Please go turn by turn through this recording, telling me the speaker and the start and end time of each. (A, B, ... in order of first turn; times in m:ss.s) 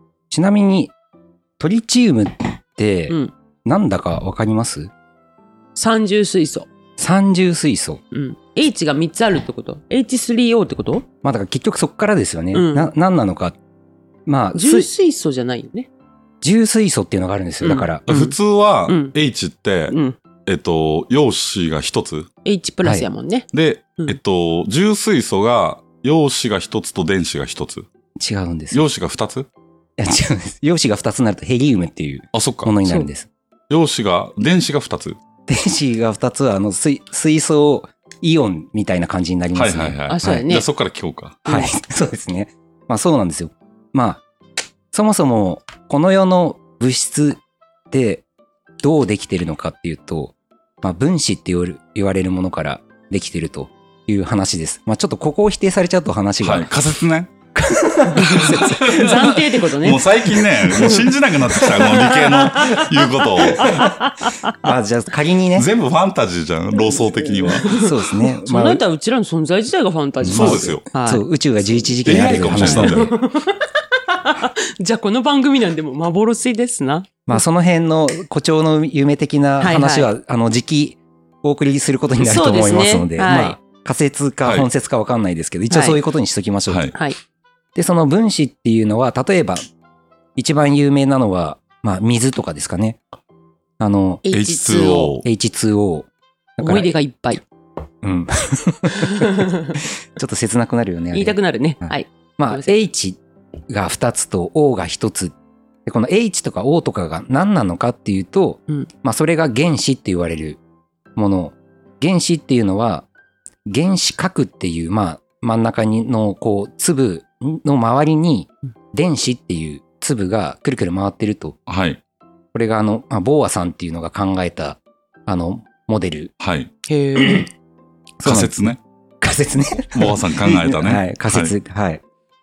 0:00.3-0:00.9 A
0:01.6-0:04.9 A
0:05.7-0:06.7 B
0:07.0-0:08.0 A
0:08.1-0:11.0 B
0:11.2-0:13.6 A
0:12.5-0:12.9 B
0:14.2-0:14.9 A
0:14.5-0:15.9 B
0:16.4-0:18.0 A
0:17.6-0:18.3 B
0:18.1-0:19.9 C
0:18.9-0:19.1 B
0:19.9-0:20.2 B
0:20.4-0:22.3 C
0:22.4-0:23.5 B
0:23.5-0:27.9 C
0:28.2-0:28.8 A
0:28.7-0:29.5 C
0:30.0-0:33.3 A
0:32.3-0:32.7 C
0:33.7-0:35.2 C
0:35.5-0:40.4 A
0:39.5-0:41.4 C
0:40.1-0:40.6 B
0:41.4-0:44.2 A
0:44.9-0:47.4 A
0:47.9-0:48.2 A
0:48.8-0:58.9 A
0:56.4-0:57.3 C
0:58.1-1:00.1 B
0:58.4-1:03.9 C
1:00.6-1:01.0 B
1:01.6-1:01.9 A
1:01.6-1:02.8 B
1:03.4-1:04.6 B
1:04.5-1:05.7 A
1:05.5-1:07.9 C
1:06.9-1:17.4 B
1:07.6-1:08.8 A
1:10.2-1:13.0 A
1:10.3-1:10.8 C
1:12.0-1:13.1 C
1:17.3-1:26.8 A
1:19.6-1:20.1 B
1:22.2-1:23.6 B
1:25.7-1:26.0 B
1:26.7-1:26.9 C
1:27.7-1:29.6 A
1:30.4-1:33.0 A
1:33.8-1:34.2 A
1:34.2-1:35.2 B
1:34.3-1:35.2 C
1:35.2-1:36.9 A
1:36.6-1:37.4 B
1:38.0-1:45.3 A
1:39.1-1:39.7 B
1:41.1-1:42.8 B
1:45.8-1:50.6 A
1:51.2-1:53.1 A
1:53.6-2:01.6 A
2:01.7-2:02.0 C
2:02.5-2:06.3 A
2:06.4-2:06.7 C
2:06.8-2:07.5 B
2:07.2-2:07.4 A
2:08.2-2:12.0 A
2:08.2-2:08.8 C
2:09.9-2:11.5 C